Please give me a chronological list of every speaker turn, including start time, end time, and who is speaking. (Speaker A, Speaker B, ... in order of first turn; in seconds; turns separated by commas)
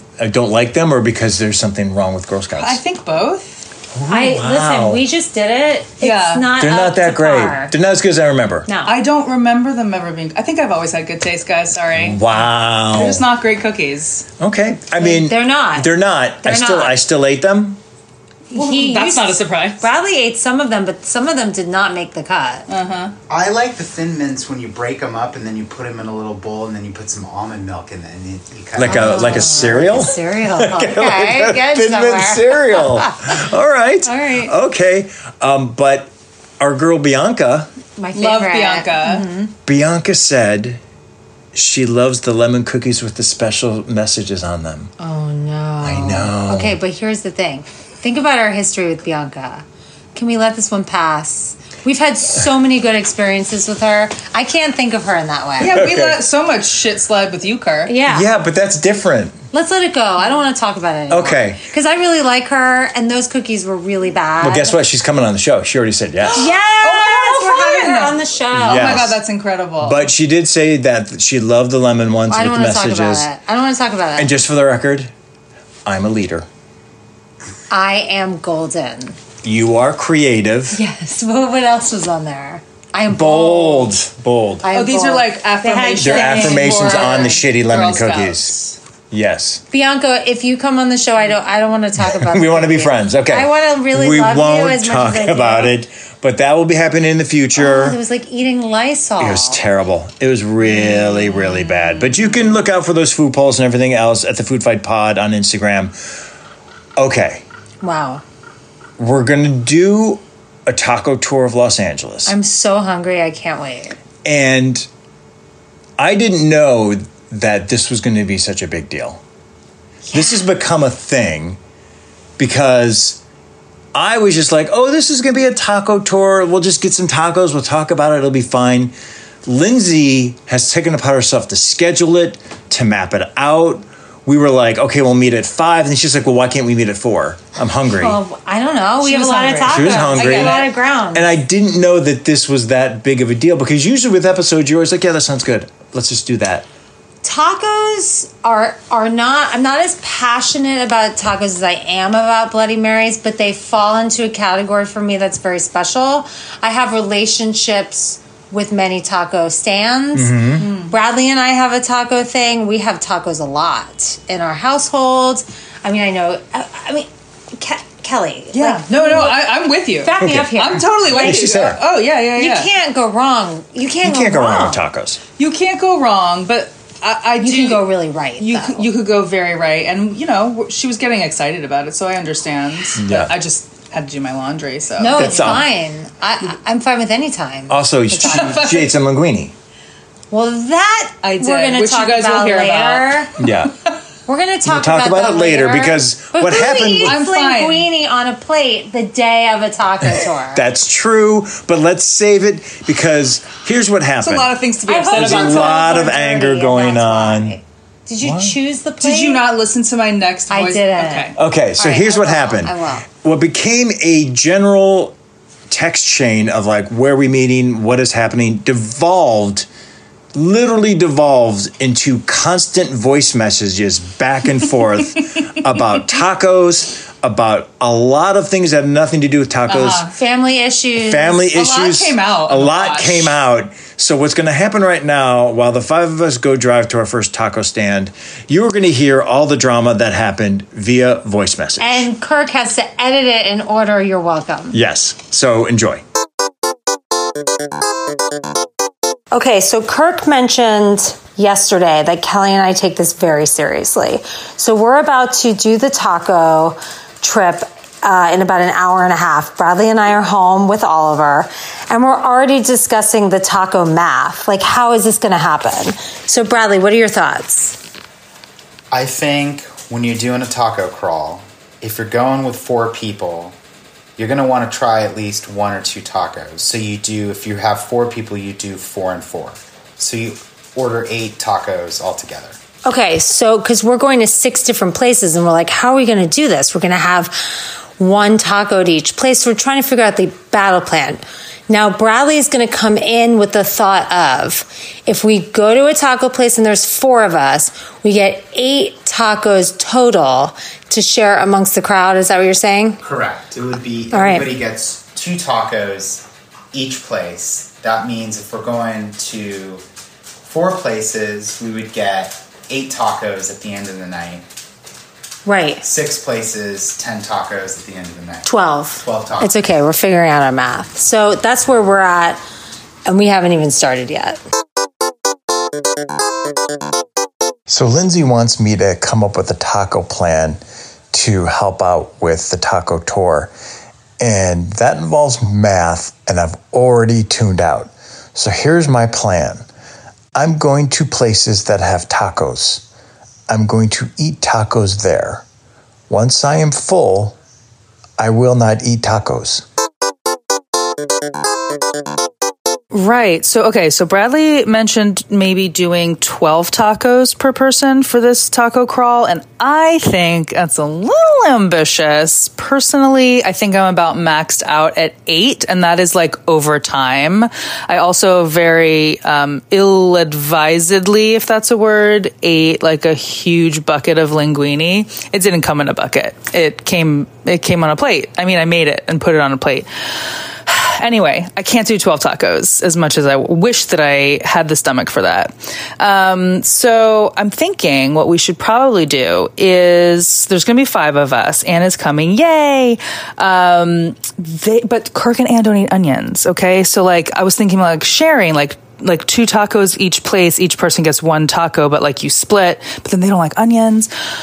Speaker A: 0.2-2.8, Speaker B: 2.6-3.6, Speaker A: 3.9-5.0, Speaker C: 4.1-7.7, Speaker B: 6.0-6.5, Speaker A: 6.6-8.7, Speaker C: 8.7-9.0, Speaker B: 8.8-14.2, Speaker A: 11.9-13.2, Speaker A: 14.4-17.8, Speaker C: 15.0-17.0, Speaker C: 18.5-22.7, Speaker B: 18.5-19.8, Speaker B: 22.7-23.1, Speaker D: 23.3-29.9, Speaker A: 28.7-37.7, Speaker C: 28.8-33.5, Speaker C: 34.0-34.5, Speaker C: 38.0-39.5, Speaker B: 38.1-39.2, Speaker A: 39.6-40.8, Speaker A: 41.5-44.9, Speaker C: 45.0-55.8, Speaker A: 45.8-46.8, Speaker B: 55.6-57.9, Speaker A: 55.7-56.2, Speaker C: 57.9-58.3, Speaker A: 58.1-59.4, Speaker C: 59.5-64.8, Speaker A: 61.1-61.6, Speaker A: 64.4-66.5, Speaker B: 66.3-70.1, Speaker C: 66.3-69.0, Speaker A: 68.5-69.2, Speaker A: 69.8-73.3, Speaker C: 72.3-74.3, Speaker A: 74.2-75.1, Speaker A: 75.8-76.5, Speaker C: 77.7-79.2, Speaker A: 79.4-80.8, Speaker C: 80.7-84.0, Speaker A: 83.1-84.7, Speaker C: 84.6-87.5, Speaker B: 84.7-88.8, Speaker A: 86.0-88.5, Speaker A: 89.1-89.6, Speaker C: 89.7-95.7, Speaker A: 92.0-98.0, Speaker C: 97.5-99.6, Speaker A: 99.2-106.0, Speaker C: 100.7-101.8, Speaker A: 107.0-107.4, Speaker C: 107.8-108.2, Speaker A: 109.0-112.3, Speaker C: 112.2-114.0, Speaker A: 114.2-114.9, Speaker A: 116.0-119.2, Speaker C: 120.1-120.5, Speaker A: 120.1-121.6, Speaker A: 122.4-123.2, Speaker A: 123.9-138.2, Speaker C: 137.9-141.2, Speaker B: 139.0-140.7, Speaker A: 139.7-146.7, Speaker C: 147.2-169.3, Speaker A: 160.1-160.7, Speaker B: 160.6-160.9, Speaker B: 168.5-172.7, Speaker C: 170.0-171.3, Speaker A: 170.2-171.8, Speaker C: 172.3-174.8, Speaker A: 174.0-175.2, Speaker B: 175.4-185.6, Speaker C: 177.4-178.9, Speaker A: 182.9-183.3, Speaker C: 185.0-188.6, Speaker A: 185.1-185.7, Speaker A: 187.7-189.5, Speaker B: 188.1-188.9, Speaker C: 190.3-193.3, Speaker B: 191.2-193.2, Speaker A: 193.4-193.7, Speaker C: 194.2-200.6, Speaker A: 194.6-197.2, Speaker B: 197.0-197.9, Speaker A: 200.1-204.5, Speaker B: 204.2-206.1, Speaker C: 204.9-209.4, Speaker A: 205.1-207.5, Speaker A: 208.2-208.6, Speaker B: 209.0-211.3, Speaker C: 210.5-213.1, Speaker A: 211.3-215.1, Speaker A: 215.7-219.7, Speaker A: 220.3-230.1, Speaker B: 229.7-230.1, Speaker C: 230.1-231.4, Speaker A: 231.0-242.0, Speaker B: 231.5-233.4, Speaker C: 241.8-244.8, Speaker A: 244.7-246.0, Speaker C: 249.3-267.8, Speaker D: 268.9-273.6, Speaker D: 274.2-282.6, Speaker C: 282.8-303.0, Speaker D: 303.0-309.8, Speaker C: 304.1-304.5, Speaker D: 310.4-314.4, Speaker C: 315.4-315.8, Speaker D: 315.8-319.5, Speaker C: 318.4-322.4, Speaker C: 323.0-324.4, Speaker A: 327.7-330.6, Speaker A: 331.1-333.5, Speaker A: 334.2-339.6, Speaker A: 340.3-342.8, Speaker A: 343.5-345.4, Speaker A: 346.1-347.4, Speaker A: 348.2-349.6, Speaker B: 352.9-404.1